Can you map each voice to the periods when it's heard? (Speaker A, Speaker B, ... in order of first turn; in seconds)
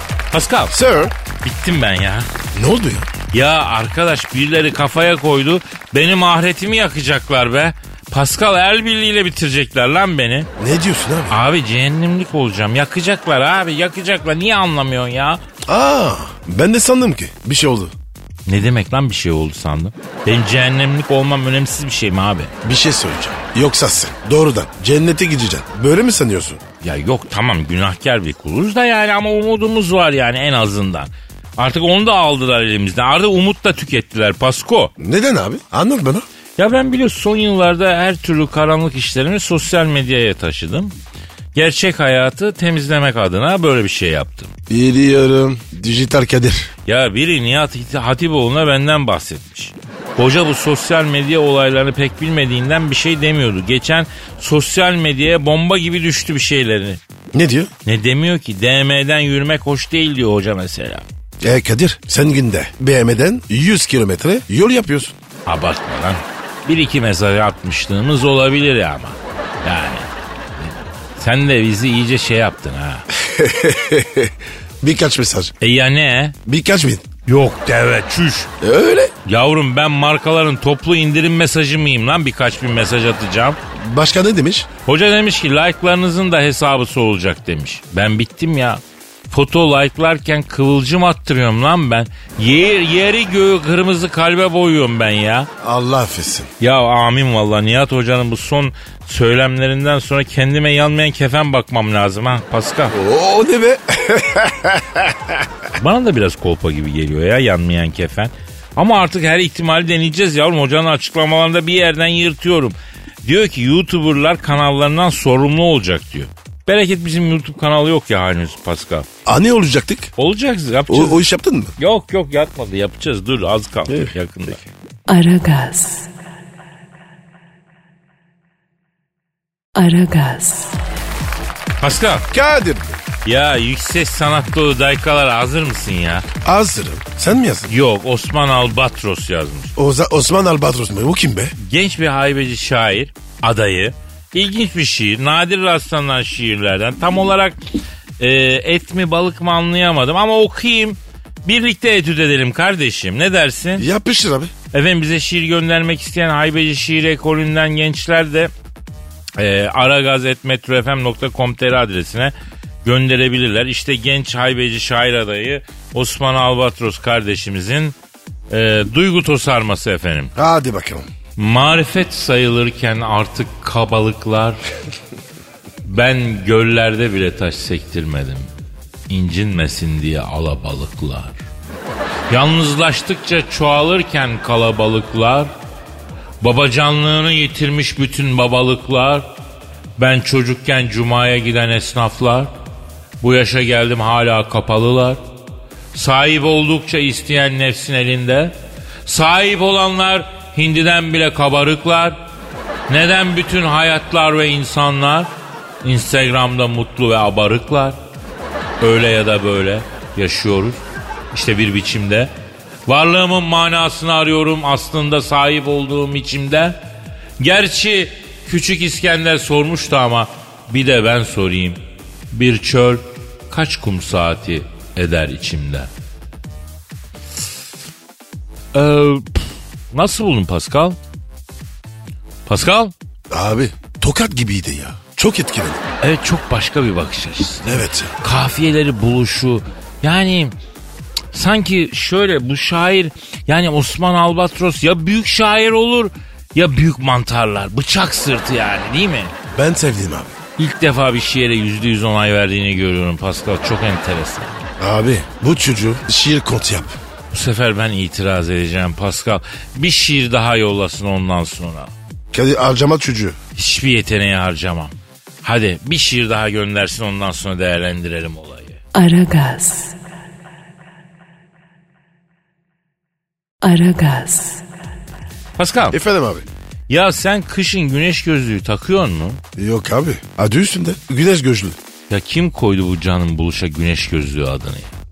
Speaker A: 0.3-0.7, 1.4-2.3, 3.3-10.5, 11.3-15.4, 18.4-22.5, 26.8-34.9, 36.6-40.9, 41.5-44.5, 46.9-57.0, 57.8-61.0, 65.5-70.1, 70.6-73.1, 75.6-76.4, 77.2-78.5, 79.2-83.6, 84.8-95.5, 96.6-102.9, 105.8-119.1, 120.2-121.2, 121.8-124.7, 131.8-132.3, 133.2-136.3, 137.7-139.7, 141.6-147.6, 148.2-153.9, 154.7-158.5, 159.4-162.3, 162.8-167.9, 168.5-170.3, 171.4-174.6, 175.8-178.5, 179.1-181.3, 182.3-185.5, 186.4-189.3, 190.0-192.5, 193.2-195.2, 195.9-202.2, 202.9-205.3, 205.8-208.0, 208.8-212.3, 212.9-216.8, 217.4-225.9, 228.7-231.0, 232.5-232.9, 236.0-240.5, 241.3-249.3, 250.6-254.6, 257.3-261.9, 263.6-268.8, 275.6-276.0, 276.9-279.4, 282.1-284.9
Speaker B: 0.7-1.1, 2.5-3.1, 10.6-11.4, 15.7-17.9, 22.6-26.6, 35.0-36.2, 44.7-46.7, 57.3-57.7, 61.4-65.1, 73.1-75.5, 76.5-77.0, 78.6-79.1, 83.7-84.7, 95.6-96.5, 102.9-105.5, 119.2-120.1, 120.9-121.7, 123.9-124.1, 132.3-133.0, 136.4-137.7, 139.8-141.5, 153.8-154.5, 170.3-171.1, 233.3-235.8, 237.6-238.1, 249.5-250.3, 254.8-256.9, 262.3-263.4, 275.9-276.4, 279.6-281.8
Speaker C: 125.1-126.1, 129.7-130.8, 268.9-270.0, 273.6-274.6